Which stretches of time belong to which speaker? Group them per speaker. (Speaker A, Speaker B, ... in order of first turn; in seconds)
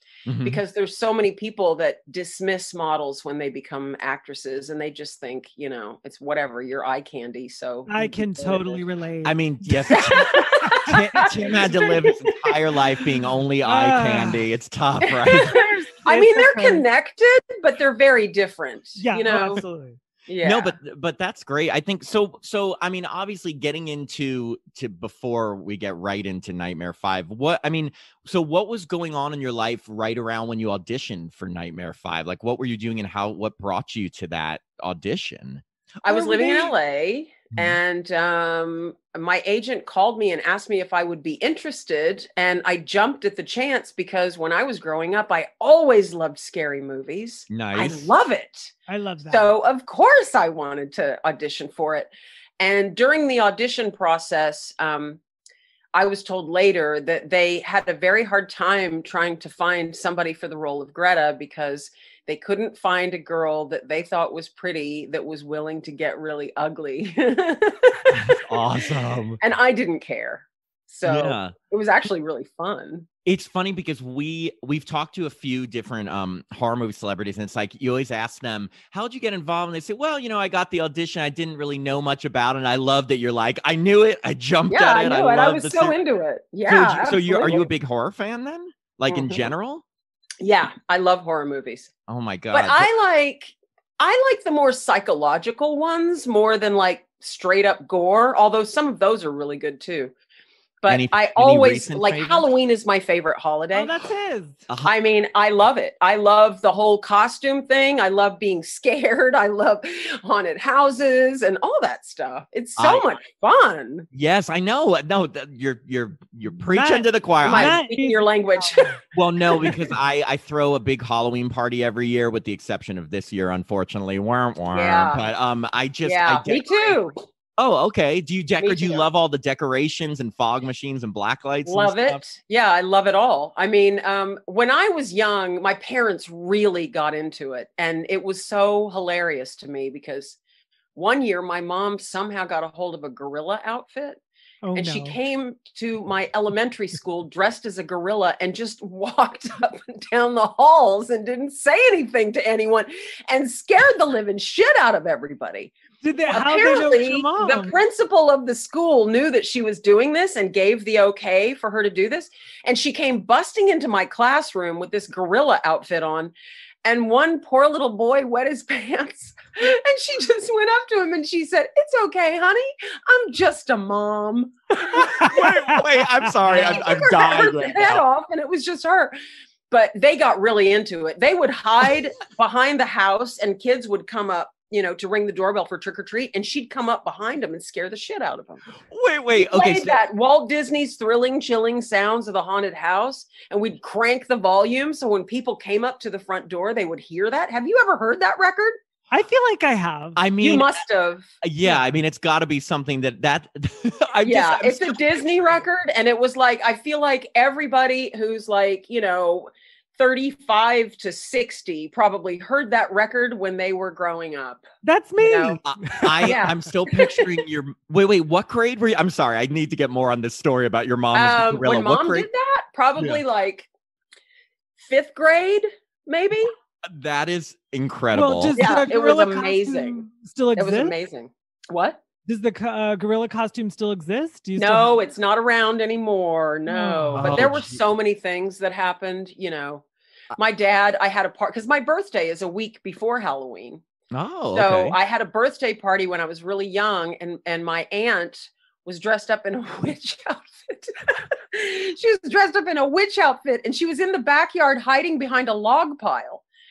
Speaker A: 0.3-0.6, 9.2-15.6, 20.4-36.7, 37.5-37.8, 47.5-48.1, 68.1-69.4, 71.0-71.5, 73.2-86.0, 86.7-89.8, 92.1-92.9, 100.9-102.5, 112.8-113.1, 114.1-117.7, 119.1-127.0, 127.6-132.2, 174.9-178.0, 188.9-190.0, 200.2-200.8, 201.4-205.2, 215.6-222.3, 226.9-228.7, 237.2-237.8, 244.1-245.0
Speaker B: 0.4-8.8, 9.9-12.6, 15.0-19.6, 20.3-20.8, 36.0-48.7, 49.3-55.2, 55.9-68.4, 69.4-73.1, 84.7-87.7, 89.1-89.5, 90.4-91.9, 92.5-100.1, 100.8-103.9, 104.8-114.1, 117.5-119.7, 124.7-125.2, 126.0-127.2, 128.6-129.0, 131.7-140.4, 140.9-144.2, 144.8-155.7, 156.3-166.3, 166.8-175.8, 176.5-179.2, 179.7-188.6, 189.4-198.8, 200.4-201.3, 204.2-214.6, 215.2-215.6, 216.2-217.2, 221.1-223.7, 224.8-226.5, 228.6-230.0, 230.6-232.0, 234.6-243.8, 244.5-256.4
Speaker C: 7.9-11.5, 13.7-14.5, 15.4-16.9, 19.0-20.0, 48.9-49.5, 103.7-104.7, 116.7-118.9, 144.6-145.2, 156.0-157.8, 175.4-175.8, 176.4-176.8, 199.1-200.2, 214.8-216.4, 228.1-230.9, 232.3-235.0, 236.7-237.4